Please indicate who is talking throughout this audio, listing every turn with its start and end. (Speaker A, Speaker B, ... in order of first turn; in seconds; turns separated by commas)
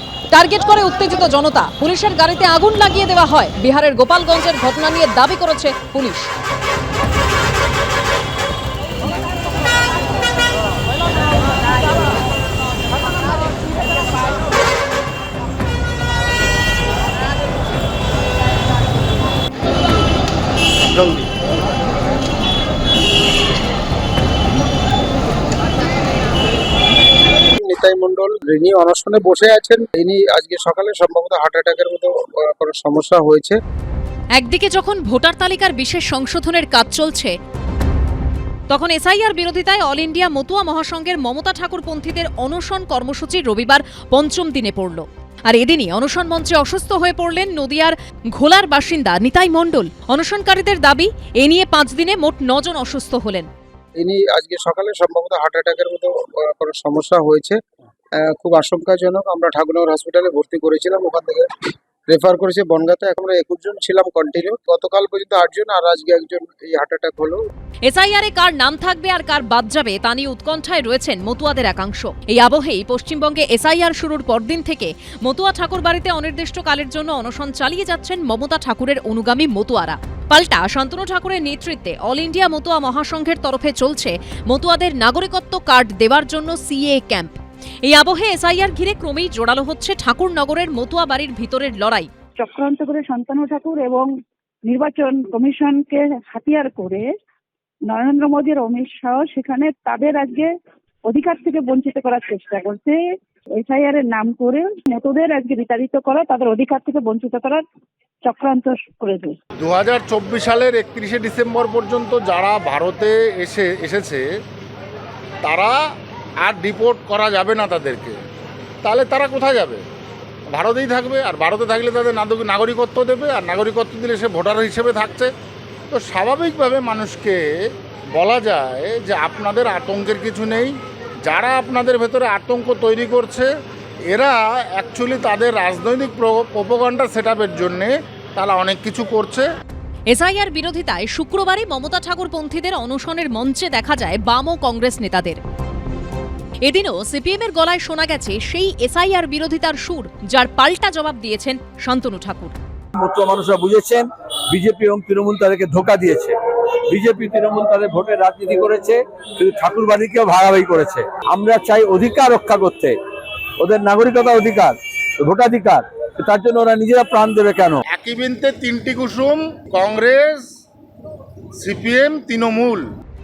Speaker A: 0.3-6.3, Speaker B: 27.6-33.6, Speaker A: 34.4-37.3, Speaker A: 38.7-53.5, Speaker B: 54.0-57.6, Speaker B: 58.2-61.5, Speaker B: 62.1-67.4, Speaker A: 67.8-87.3, Speaker A: 87.9-92.1, Speaker C: 92.4-94.1, Speaker C: 94.7-97.1, Speaker C: 97.9-100.5, Speaker C: 101.0-103.0, Speaker C: 103.6-107.6, Speaker C: 108.2-109.3, Speaker D: 109.6-114.2, Speaker D: 115.4-115.8, Speaker D: 116.4-118.2, Speaker D: 118.8-119.8, Speaker D: 120.5-125.3, Speaker D: 125.9-127.5, Speaker D: 128.2-130.7, Speaker D: 131.2-133.5, Speaker D: 134.1-139.4, Speaker A: 140.1-145.4, Speaker A: 146.6-152.5, Speaker E: 152.9-156.3, Speaker E: 156.9-162.9, Speaker E: 163.6-167.8, Speaker D: 167.9-170.5, Speaker D: 171.6-172.9